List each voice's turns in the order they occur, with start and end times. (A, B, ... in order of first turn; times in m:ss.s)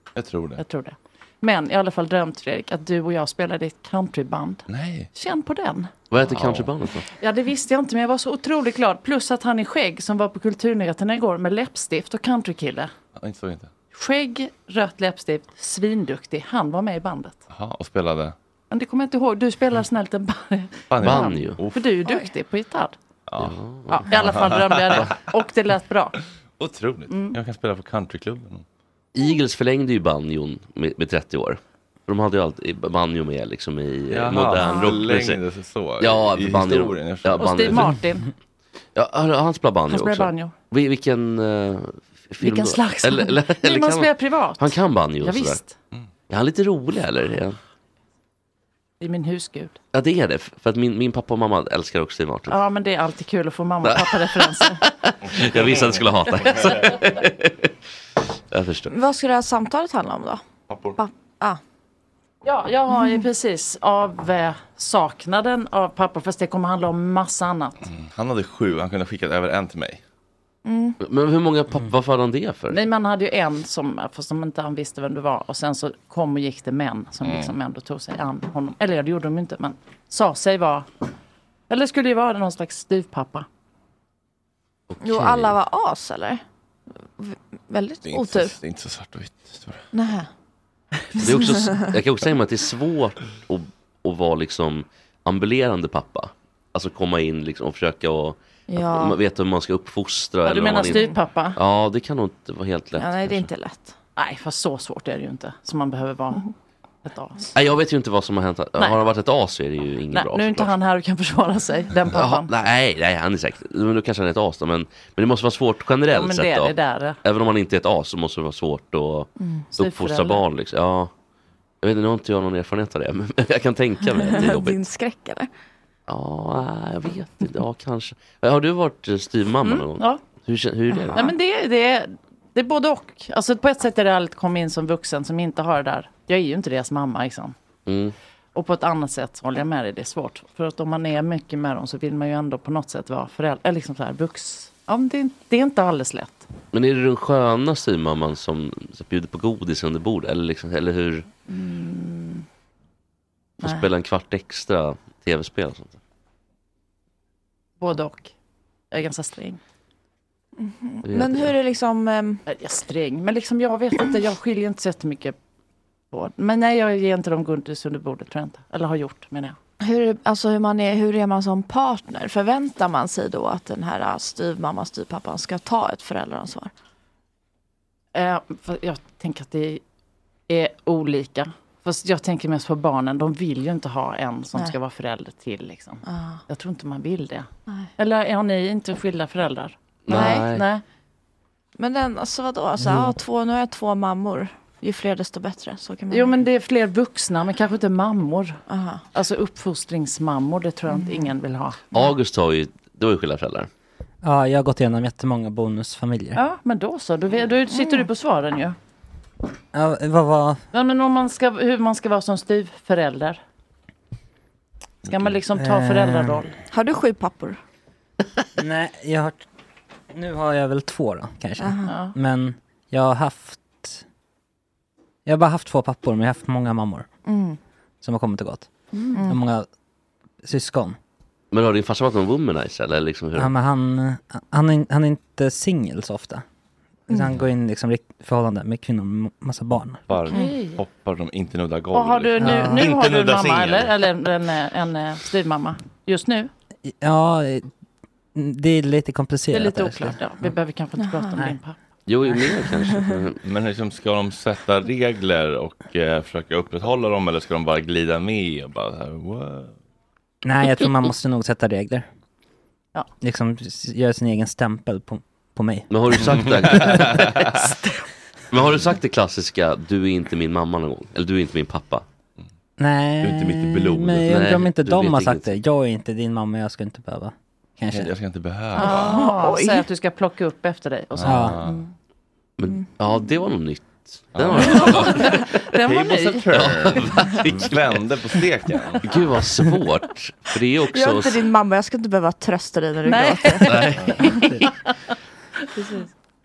0:00.2-0:00.6 A
0:00.6-0:05.9 B
0:04.7-0:05.1 A
0:06.1-0:07.1 C
0:06.2-0:06.7 A
0:07.2-0:12.9 B
0:13.2-0:13.7 A
0:13.9-0:17.4 B
0:17.5-0:18.4 A
0:18.7-0:23.0 B
0:20.9-0:21.9 A
0:21.0-0:21.6 C
0:23.3-0:23.6 A
0:23.4-0:24.1 C
0:23.9-0:26.2 B
0:24.1-0:25.1 A
0:26.6-0:28.6 A
0:27.1-0:27.4 B
0:29.2-0:35.4 C
0:34.1-0:37.9 A
0:34.7-0:34.9 D
0:36.0-0:38.0 C
0:37.4-0:38.3 B
0:39.0-0:45.6 C
0:39.9-0:40.5 B
0:42.4-0:45.8 B
0:46.3-0:47.6 C
0:49.0-0:49.8 B
0:49.9-0:52.6 C
0:52.5-0:54.8 B
0:53.8-0:57.7 C
0:58.5-0:58.9 C
0:58.9-1:00.4 D
1:00.7-1:01.0 A
1:01.0-1:01.6 D
1:02.4-1:07.9 B
1:07.9-1:10.0 A
1:10.6-1:11.0 D
1:11.0-1:12.8 C
1:12.7-1:20.9 B
1:17.2-1:17.5 A
1:21.7-1:23.5 B
1:24.9-1:25.6 C
1:25.0-1:26.4 D
1:27.2-1:28.6 D
1:28.1-1:29.8 A
1:29.9-1:30.3 D
1:31.2-1:31.9 D
1:31.2-1:43.5 C
1:38.7-1:39.2 D
1:40.4-1:41.6 B
1:43.0-1:44.0 D
1:44.2-1:46.5 B
1:47.0-1:47.6 B
1:47.6-1:50.8 C
1:50.1-1:52.5 B
1:52.1-2:01.1 C
1:56.1-1:57.2 B
1:59.8-2:00.4 B
2:01.8-2:04.8 C
2:04.1-2:05.5 D
2:06.1-2:11.3 C
2:09.6-2:10.2 B
2:11.1-2:17.6 B
2:17.9-2:18.2 C
2:18.6-2:26.5 B
2:26.7-2:31.3 C
2:31.5-2:32.4 B
2:33.6-2:33.9 B
2:33.6-2:36.0 C
2:37.8-2:38.3 B
2:38.9-2:39.6 B
2:40.6-2:42.4 D
2:41.0-2:41.5 C
2:42.5-2:45.4 B
2:46.1-2:49.6 B
2:49.8-2:56.7 D
2:58.1-2:59.8 B
3:00.5-3:10.8 B
3:06.1-3:06.4 D
3:10.1-3:10.7 C
3:10.1-3:10.5 D
3:11.8-3:16.4 D
3:16.1-3:18.6 B
3:18.7-3:19.0 D
3:19.1-3:21.8 B
3:21.0-3:21.3 D
3:21.9-3:23.7 C
3:24.2-3:26.4 E
3:26.4-3:28.8 B
3:27.7-3:28.1 D
3:29.7-3:30.6 E
3:30.7-3:33.4 B
3:35.1-3:36.6 B
3:35.5-3:36.4 E
3:36.7-3:37.6 D
3:38.6-3:39.4 E
3:40.1-3:44.0 E
3:41.6-3:41.9 D
3:41.8-3:42.2 B
3:45.3-3:47.1 E
3:47.3-3:47.6 D
3:48.0-3:48.7 E
3:49.2-3:49.7 E
3:50.4-3:51.0 E
3:51.5-3:53.5 C
3:53.4-3:56.4 E
3:57.1-4:00.0 E
4:00.1-4:03.9 A
4:00.3-4:00.8 B
4:01.9-4:06.5 B
4:02.4-4:02.9 E
4:06.9-4:07.7 E
4:08.4-4:10.5 E
4:09.5-4:11.8 B
4:12.1-4:13.4 C
4:13.4-4:19.8 A
4:20.4-4:22.1 E
4:23.2-4:27.1 E
4:25.9-4:27.2 C
4:26.6-4:27.6 A
4:28.5-4:32.0 C
4:32.8-4:38.1 E
4:33.2-4:34.3 A
4:34.3-4:35.6 C
4:37.9-4:39.2 A
4:38.8-4:41.9 B
4:38.8-4:39.8 D
4:41.1-4:41.8 A
4:41.2-4:41.6 E
4:42.6-4:45.4 C
4:44.3-4:45.2 A
4:44.5-4:46.6 B
4:45.8-4:49.1 A
4:46.5-4:47.8 C
4:49.0-4:51.5 C
4:50.9-4:53.7 D
4:53.0-4:54.7 B
4:53.6-4:54.4 C
4:55.8-4:56.1 B